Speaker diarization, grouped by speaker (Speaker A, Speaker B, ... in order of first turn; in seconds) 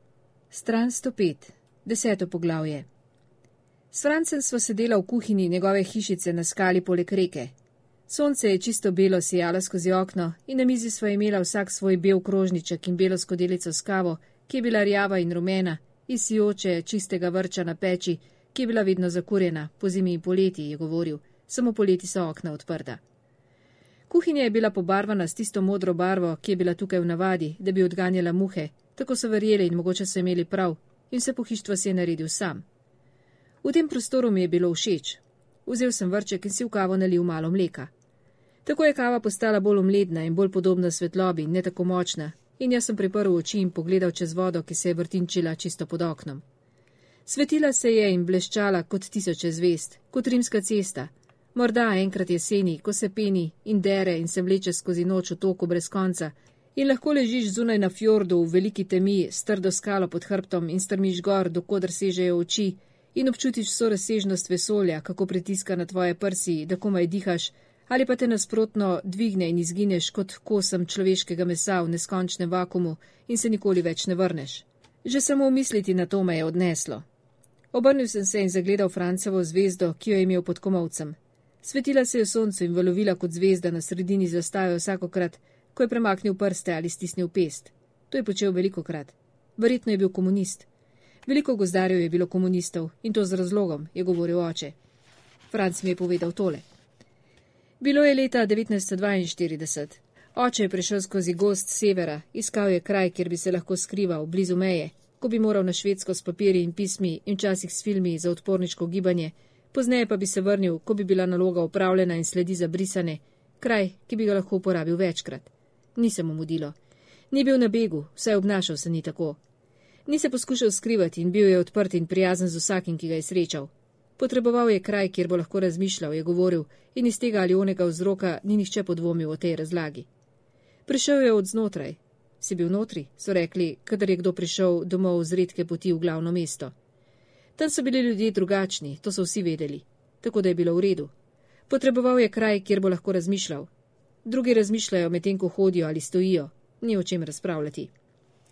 Speaker A: 0.5-2.9, 3.9-7.5, 8.1-23.0, 24.1-32.6, 33.6-37.9, 38.6-46.4, 47.2-77.0, 77.7-90.7, 91.2-94.8, 95.5-96.6, 97.8-116.8, 117.3-119.4, 120.1-130.1, 130.9-136.7, 137.6-141.1, 141.7-143.7, 144.2-147.9